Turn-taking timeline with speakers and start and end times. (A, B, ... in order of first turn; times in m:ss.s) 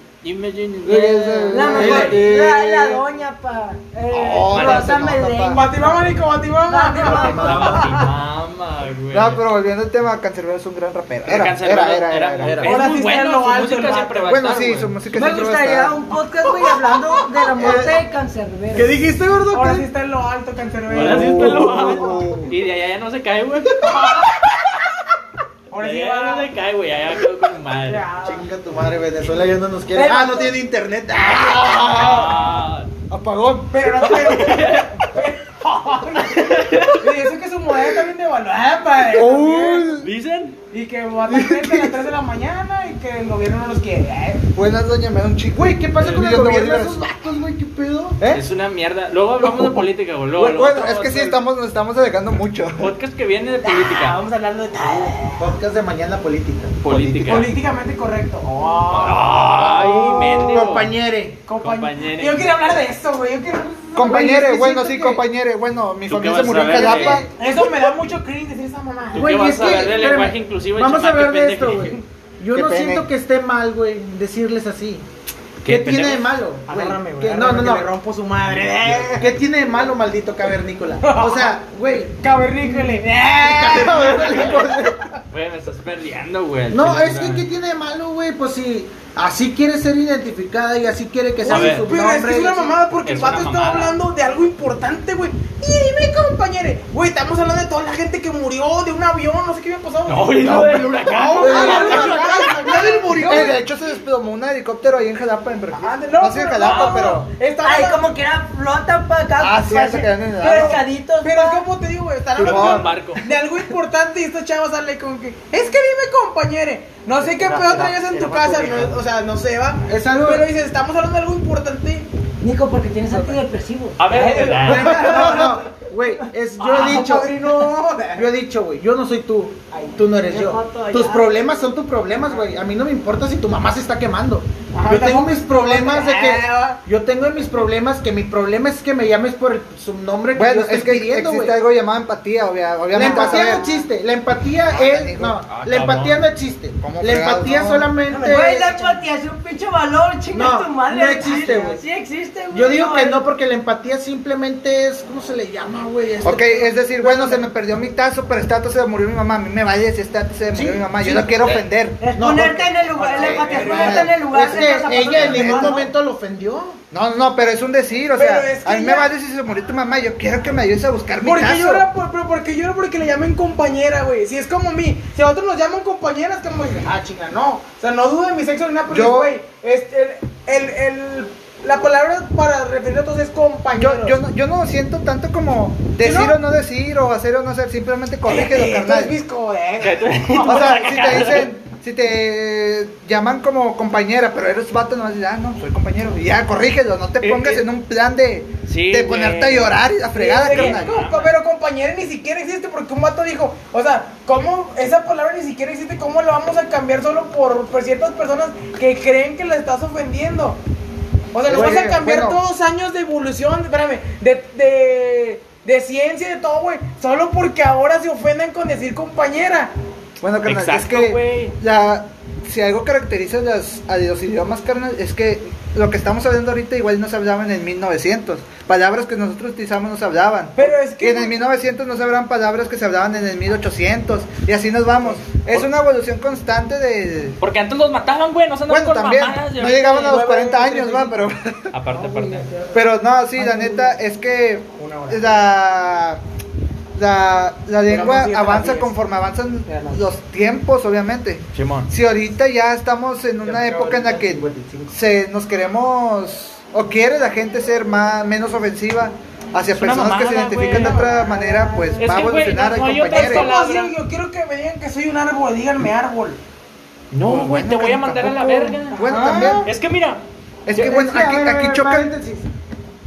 0:00.2-0:02.2 A
0:00.8-0:03.0 B
0:01.5-0:08.0 C
0:01.6-0:02.3 D
0:01.8-0:02.2 E
0:04.1-0:05.6 B
0:04.4-0:05.0 A
0:05.4-0:08.1 E
0:07.0-0:09.4 A
0:07.1-0:07.8 D
0:09.1-0:12.7 B
0:11.2-0:15.0 A
0:12.4-0:12.8 D
0:12.6-0:14.6 E
0:14.3-0:16.0 B
0:15.1-0:19.0 C
0:17.6-0:18.0 D
0:18.7-0:19.9 D
0:19.5-0:22.2 E
0:20.9-0:24.8 A
0:20.9-0:22.5 B
0:25.7-0:26.5 E
0:25.7-0:28.1 A
0:27.8-0:28.4 E
0:28.2-0:32.5 D
0:29.9-0:30.6 C
0:31.8-0:32.9 A
0:33.1-0:33.7 B
0:33.1-0:33.6 D
0:33.7-0:39.9 E
0:34.1-0:35.0 A
0:36.3-0:37.1 A
0:39.1-0:40.1 B
0:40.0-0:40.6 A
0:40.7-0:44.4 E
0:41.3-0:41.9 B
0:44.5-0:47.0 B
0:45.5-0:48.4 D
0:46.0-0:46.3 A
0:48.3-0:51.4 A
0:49.4-0:49.8 B
0:50.4-0:52.9 B
0:52.8-0:54.2 A
0:53.6-0:55.6 E
0:54.8-0:55.1 A
0:55.4-0:57.5 D
0:56.8-0:57.5 A
0:57.2-1:00.2 E
0:58.9-1:00.9 A
0:59.6-1:01.4 D
1:00.2-1:00.8 B
1:01.4-1:04.4 E
1:01.6-1:02.6 A
1:04.0-1:07.3 B
1:04.0-1:05.2 D
1:06.1-1:07.2 A
1:06.7-1:07.3 D
1:07.3-1:10.1 E
1:09.1-1:12.0 A
1:09.1-1:15.0 D
1:12.5-1:13.1 B
1:15.6-1:16.3 A
1:15.6-1:17.9 D
1:16.6-1:19.4 E
1:18.5-1:19.3 A
1:19.2-1:22.2 D
1:21.0-1:21.6 E
1:22.2-1:24.7 E
1:23.4-1:25.1 D
1:24.3-1:24.6 A
1:25.3-1:27.4 A
1:26.7-1:32.8 D
1:31.4-1:43.6 E
1:31.4-1:31.9 A
1:33.0-1:34.0 A
1:40.1-1:42.8 A
1:41.3-1:43.5 D
1:41.5-1:47.3 B
1:45.7-1:48.1 E
1:46.6-1:47.2 A
1:47.6-1:51.6 C
1:49.4-1:50.8 B
1:50.4-2:02.1 E
1:52.4-1:52.9 B
1:52.4-1:53.2 A
1:59.9-2:00.5 D
2:02.4-2:04.7 C
2:04.0-2:05.4 A
2:04.1-2:05.6 E
2:04.6-2:07.4 D
2:06.6-2:08.3 E
2:08.1-2:21.6 D
2:09.7-2:10.0 E
2:10.2-2:11.7 C
2:14.7-2:16.8 E
2:20.3-2:23.7 B
2:22.9-2:29.0 D
2:23.0-2:23.8 E
2:24.6-2:25.4 B
2:25.6-2:26.3 A
2:26.8-2:27.9 B
2:28.1-2:33.2 C
2:30.3-2:31.8 D
2:32.5-2:37.4 D
2:36.2-2:42.0 B
2:40.5-2:46.8 D
2:42.0-2:45.9 C
2:43.0-2:44.2 E
2:43.2-2:44.2 B
2:45.1-2:45.9 B
2:46.9-2:51.8 B
2:48.1-2:49.1 E
2:51.2-3:04.2 E
2:58.9-2:59.3 B
3:03.7-3:09.2 B
3:06.0-3:06.4 E
3:08.2-3:10.7 E
3:09.8-3:11.5 A
3:10.4-3:20.9 B
3:17.2-3:17.6 A
3:18.7-3:19.8 A
3:20.1-3:30.6 E
3:20.4-3:21.4 A
3:31.3-3:39.7 E
3:31.4-3:32.4 B
3:31.5-3:32.0 D
3:40.2-3:57.4 B
3:40.4-3:41.6 A
3:50.6-3:51.4 E
3:57.4-4:00.2 A
3:58.7-4:01.7 B
4:00.0-4:01.3 E
4:01.7-4:02.5 A
4:02.0-4:02.8 E
4:02.7-4:06.2 B
4:03.4-4:03.9 E
4:04.8-4:05.3 E
4:06.9-4:23.5 B
4:07.9-4:08.9 E
4:09.6-4:10.1 E
4:11.5-4:11.9 A
4:13.4-4:14.9 D
4:19.7-4:21.0 A
4:20.6-4:21.4 E
4:21.1-4:22.1 C
4:22.0-4:23.9 A
4:23.0-4:26.4 E
4:27.1-4:30.2 A
4:27.2-4:29.7 B
4:28.9-4:29.7 E
4:30.6-4:32.2 B
4:30.7-4:32.5 D